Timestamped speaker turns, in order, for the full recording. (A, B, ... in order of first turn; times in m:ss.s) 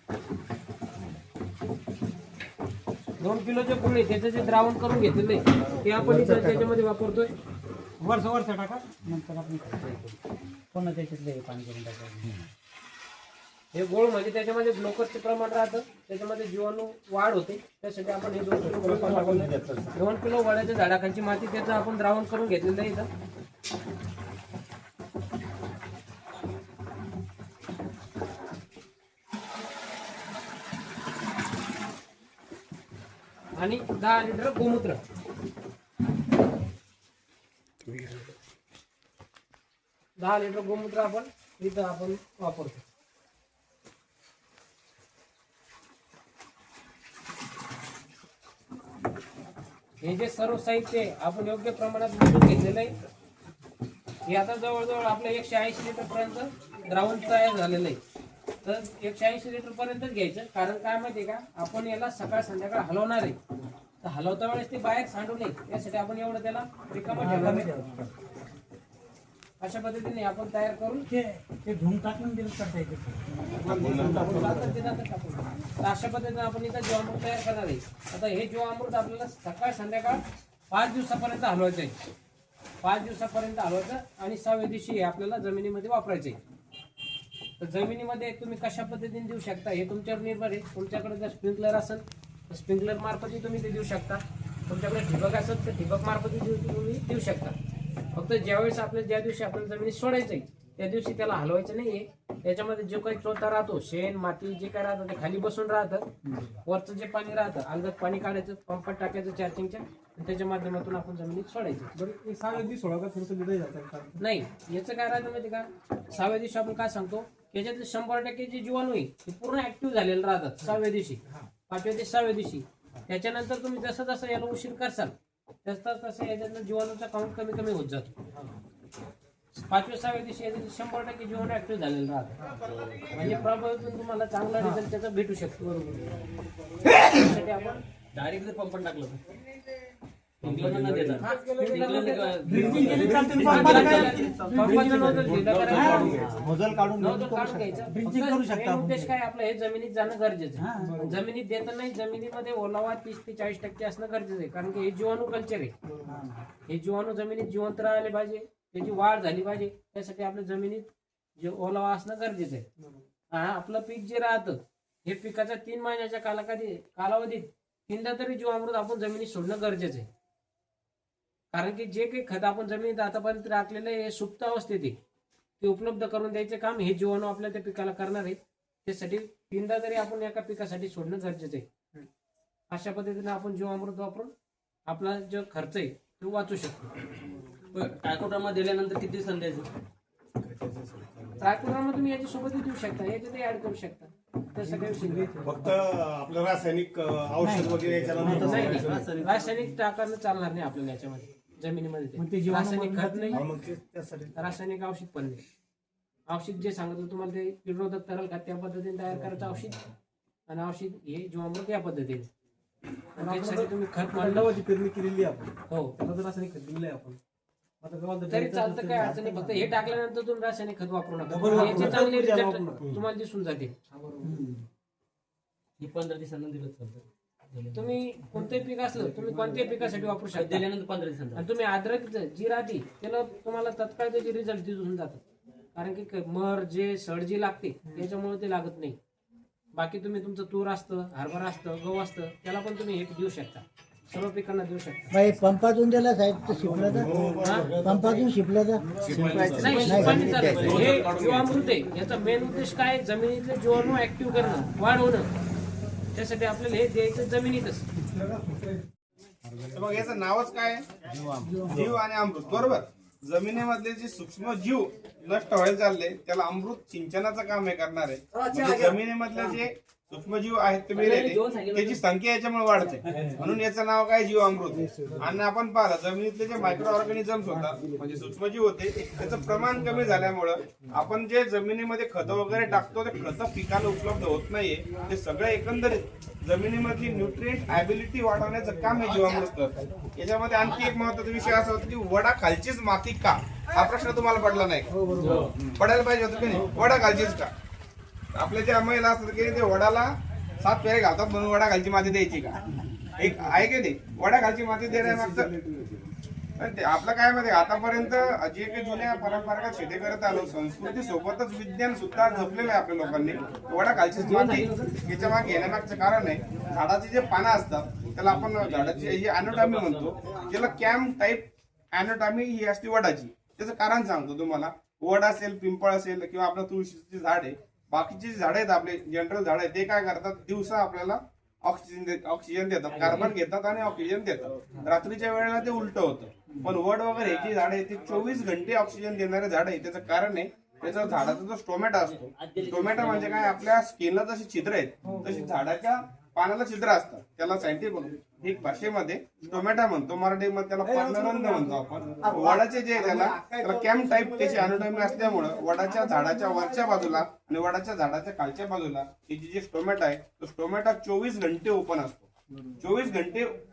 0:03.2-0:07.3 A
0:05.9-0:06.6 B
0:08.0-0:10.2 B
0:10.7-0:12.5 B
0:13.7-0:23.1 A
0:18.6-0:19.8 C
0:33.6-0:35.0 A
0:40.2-0:42.8 A
0:50.0-0:53.0 A
0:54.3-0:58.0 A
0:58.6-1:03.4 A
1:04.0-1:07.7 A
1:07.1-1:08.1 B
1:09.6-1:11.1 A
1:11.1-1:14.5 B
1:13.6-1:22.0 A
1:13.6-1:14.6 D
1:22.8-1:26.4 A
1:27.6-1:37.6 A
1:38.1-1:46.1 A
1:46.6-1:51.9 A
1:52.0-1:54.2 C
1:54.2-2:08.2 A
2:09.5-2:12.4 A
2:13.1-2:15.8 A
2:16.9-2:17.8 A
2:18.1-2:19.2 E
2:20.4-2:24.4 E
2:20.4-2:21.2 D
2:21.2-2:26.4 A
2:22.4-2:26.5 B
2:23.2-2:23.8 C
2:25.1-2:25.5 C
2:25.4-2:25.8 D
2:25.8-2:26.5 E
2:26.5-2:26.9 D
2:26.5-2:27.6 F
2:27.0-2:35.7 A
2:27.8-2:29.1 B
2:30.6-2:31.0 B
2:36.0-2:36.5 B
2:36.6-2:42.6 A
2:43.3-2:50.1 A
2:51.5-2:55.0 A
2:55.6-3:01.7 A
3:02.7-3:04.3 A
3:04.9-3:06.9 A
3:07.7-3:09.7 E
3:10.4-3:11.3 D
3:11.4-3:15.4 A
3:14.6-3:15.8 C
3:15.4-3:19.3 D
3:17.4-3:19.1 B
3:18.3-3:23.4 A
3:22.2-3:23.5 B
3:23.3-3:24.3 D
3:24.3-3:25.4 A
3:26.3-3:29.9 A
3:30.5-3:32.3 A
3:33.2-3:34.5 A
3:33.2-3:37.2 C
3:35.7-3:35.9 A
3:37.8-3:39.7 C
3:38.3-3:43.8 A
3:41.2-3:43.0 C
3:44.0-3:44.4 C
3:45.8-3:48.0 E
3:47.7-3:50.6 A
3:49.0-3:49.9 C
3:50.3-3:51.4 E
3:51.3-3:55.2 A
3:55.7-3:59.0 A
3:59.7-4:05.1 A
4:05.1-4:10.8 F
4:06.6-4:08.3 D
4:09.0-4:11.3 D
4:09.0-4:11.5 E
4:09.5-4:15.3 A
4:16.1-4:17.8 A
4:19.7-4:20.8 G
4:21.2-4:21.8 B
4:21.7-4:54.9 G
4:30.9-4:32.0 E
4:34.7-4:35.2 C
4:37.5-4:38.1 C
4:54.9-4:55.5 C
4:55.2-4:55.5 E
4:55.7-4:57.5 G
4:58.3-5:00.1 G
5:00.6-5:02.6 G
5:03.2-5:05.5 G
5:05.0-5:05.3 C
5:06.6-6:02.2 G
5:14.1-5:15.1 E
5:18.2-5:20.5 E
5:32.9-5:33.3 E
5:42.2-5:43.4 E
5:45.0-5:45.5 C
5:50.8-5:55.5 C
6:02.8-6:03.5 G